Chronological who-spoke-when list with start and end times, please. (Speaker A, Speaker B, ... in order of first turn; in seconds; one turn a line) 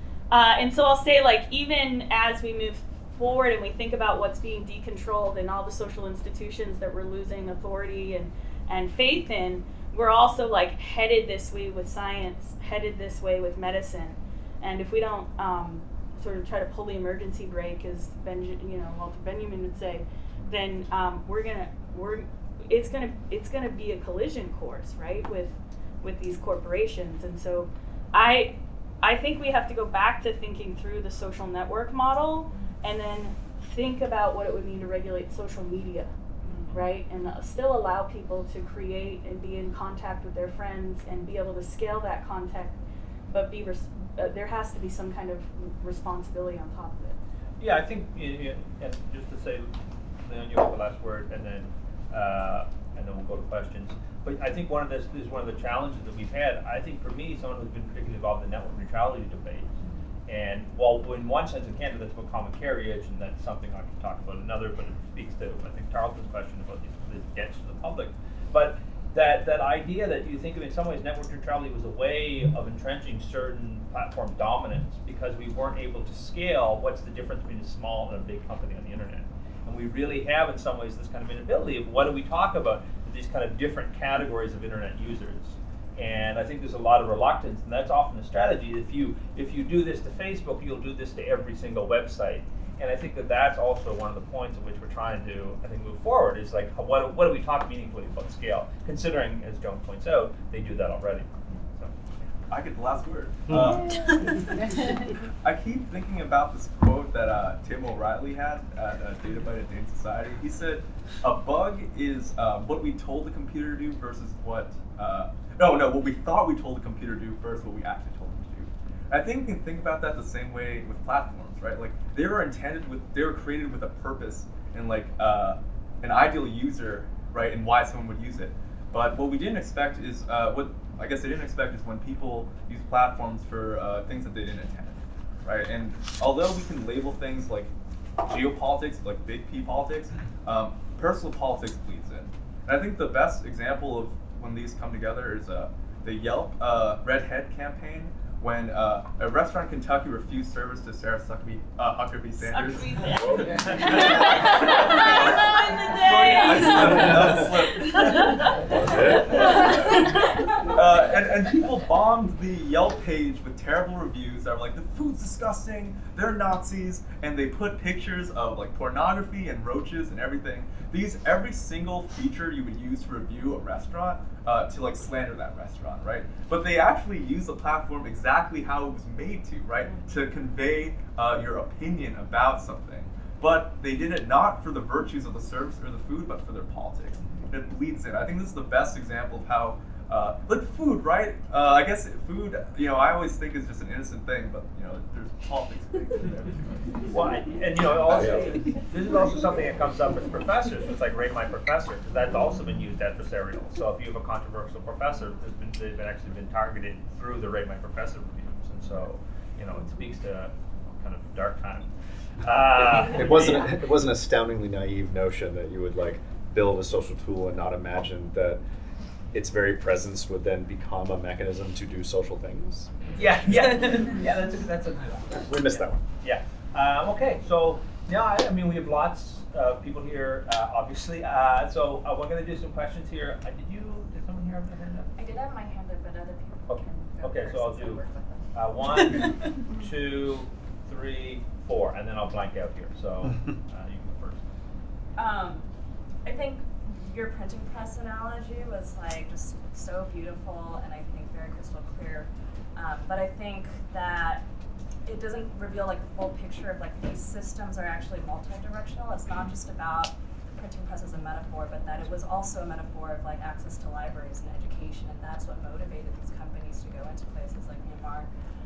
Speaker A: 0.3-36.1
Speaker B: 36.4-36.8
Speaker A: 36.7-42.8
Speaker A: 43.3-47.2
Speaker C: 47.6-59.7
Speaker C: 60.3-102.0
Speaker D: 102.5-104.5
Speaker D: 105.4-137.7
Speaker D: 138.2-160.1
Speaker A: 152.4-160.6
Speaker E: 158.6-159.4
Speaker D: 160.6-196.9
Speaker C: 197.0-211.9
Speaker C: 212.4-213.8
Speaker E: 213.0-218.6
Speaker E: 219.3-222.9
Speaker C: 223.1-235.2
Speaker E: 225.5-226.0
Speaker B: 235.2-239.3
Speaker C: 236.7-238.0
Speaker C: 238.5-244.4
Speaker B: 245.2-245.6
Speaker B: 246.2-254.4
Speaker B: 255.1-268.3